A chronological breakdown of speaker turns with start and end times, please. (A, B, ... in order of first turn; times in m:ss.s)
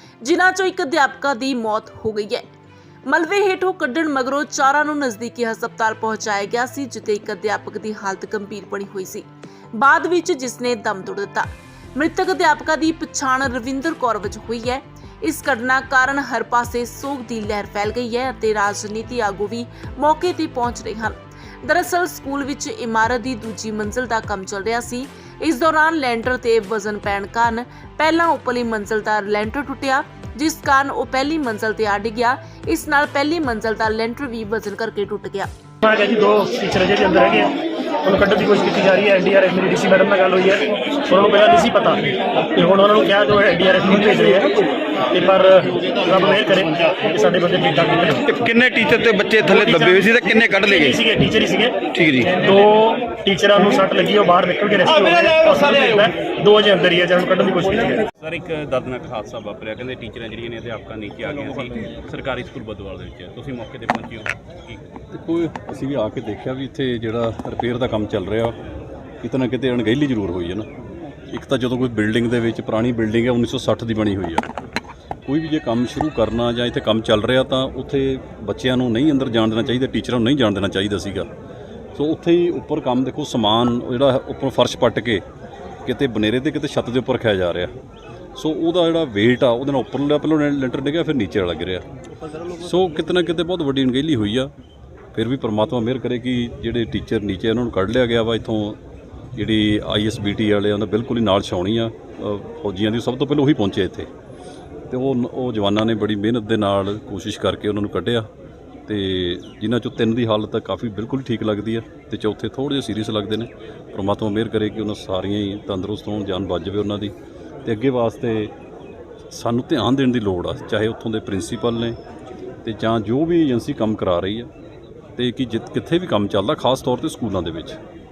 0:00.2-0:02.4 A
0:03.1-0:35.5 A
0:35.8-0:37.5 B
0:38.0-0:42.0 B
0:42.5-0:44.6 B
0:45.1-0:48.2 B
0:48.2-0:51.0 C
0:49.5-0:51.8 B
0:51.9-0:52.3 C
0:52.3-0:58.0 B
0:58.2-1:04.8 D
1:05.1-1:08.6 E
1:09.2-1:10.7 E
1:11.3-1:14.5 E
1:15.2-1:21.3 E
1:21.9-1:25.2 E
1:25.8-1:27.7 E
1:28.4-1:31.8 E
1:32.6-1:34.5 E
1:35.1-1:38.8 E
1:39.4-1:44.1 E
1:44.9-1:48.3 E
1:48.9-1:57.1 E
1:57.6-1:58.5 E
1:59.3-2:02.0 E
2:02.6-2:04.5 E
2:05.2-2:07.8 E